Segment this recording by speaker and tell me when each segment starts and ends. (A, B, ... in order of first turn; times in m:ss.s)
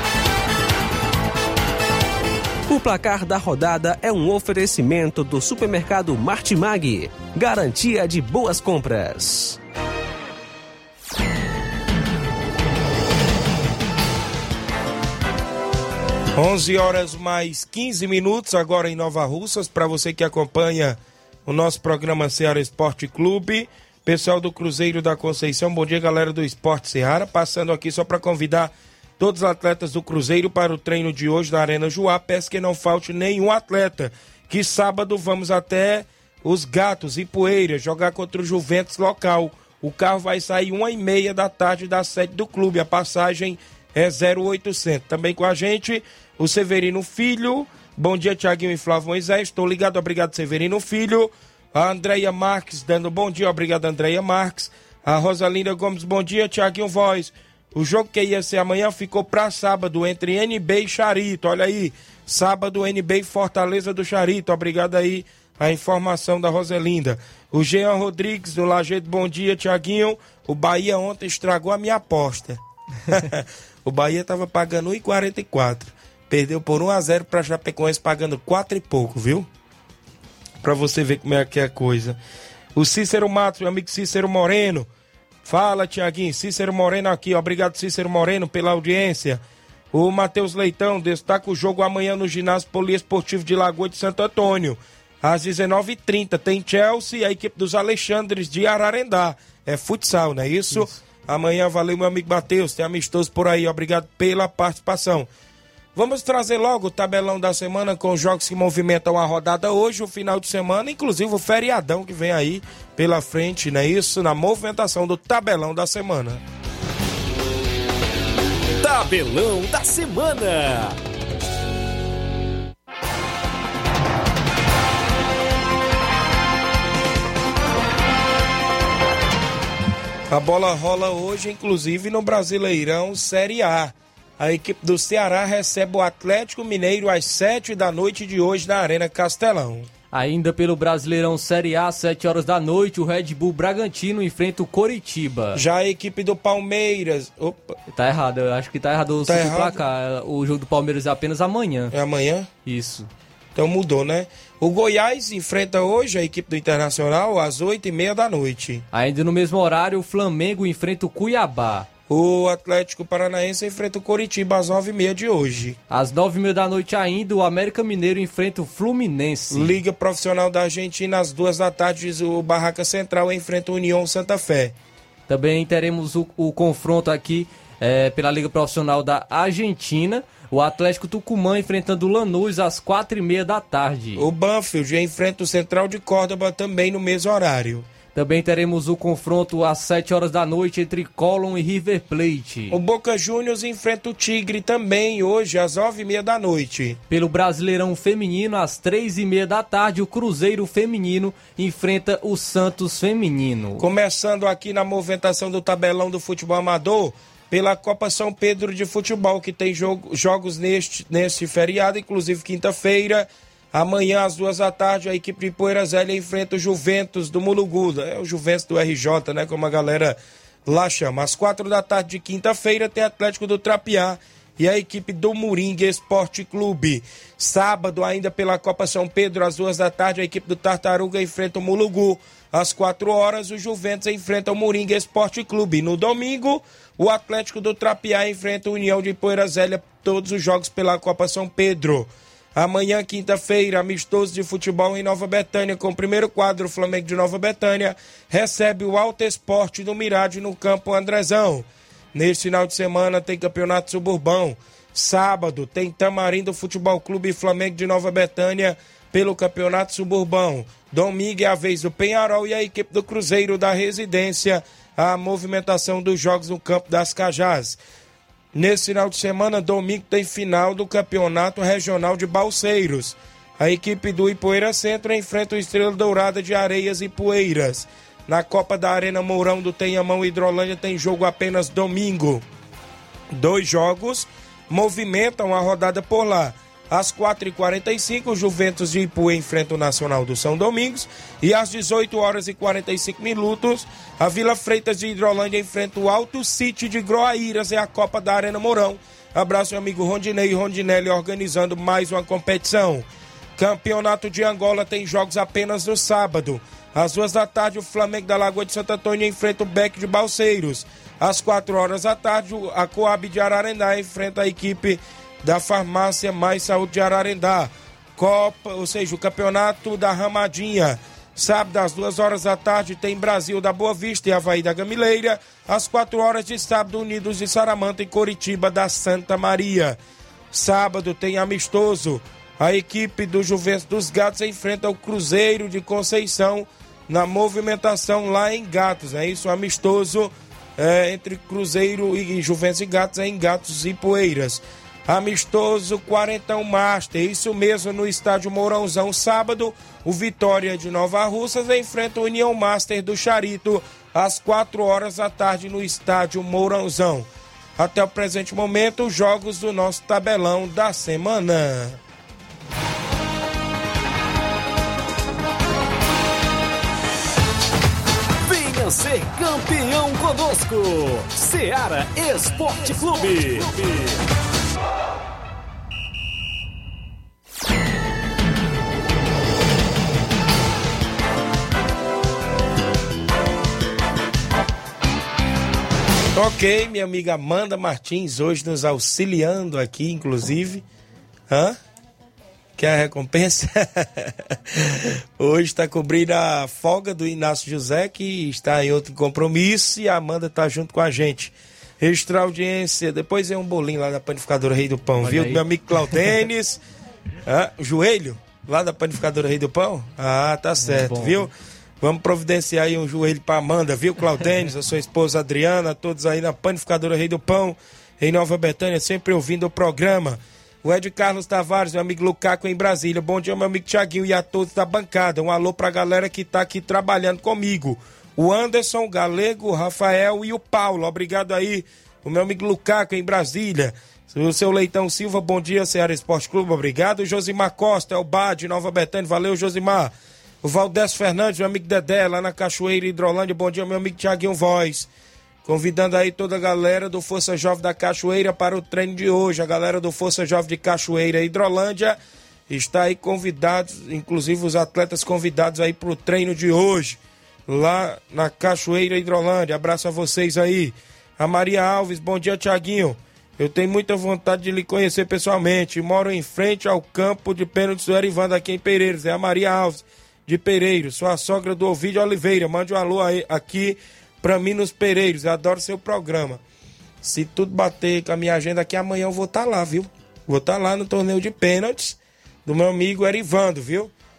0:02.7-0:09.6 A
0:16.3-1:19.5 B
1:20.6-1:22.2 B
1:22.7-1:24.9 B
1:25.4-1:45.3 B
1:45.9-1:56.4 B
1:58.8-2:01.0 C
2:10.3-2:19.9 B
2:20.1-2:25.6 D
2:25.5-2:27.8 B
2:27.9-2:31.9 D
2:29.2-2:29.8 B
2:31.9-2:32.5 B
2:32.6-2:33.1 D
2:33.5-2:38.8 B
2:38.9-2:41.9 D
2:42.1-2:45.8 B
2:45.9-2:49.8 D
2:49.5-2:54.8 B
2:55.3-3:04.2 D
3:04.2-3:07.9 B
3:08.1-3:12.8 D
3:12.7-3:17.0 B
3:17.1-3:23.8 D
3:23.8-4:27.8 B
4:28.5-4:42.4 B
4:43.3-5:30.0 B
5:30.5-6:02.0 B
6:08.4-6:14.2 C
6:26.3-6:30.8 B
6:31.5-6:31.8 B
6:32.8-6:46.8 B
6:45.2-6:46.2 D
6:47.4-7:25.1 B
6:50.8-6:51.5 D
7:25.6-7:32.2 B
7:32.7-7:56.6 B
7:57.2-8:04.1 B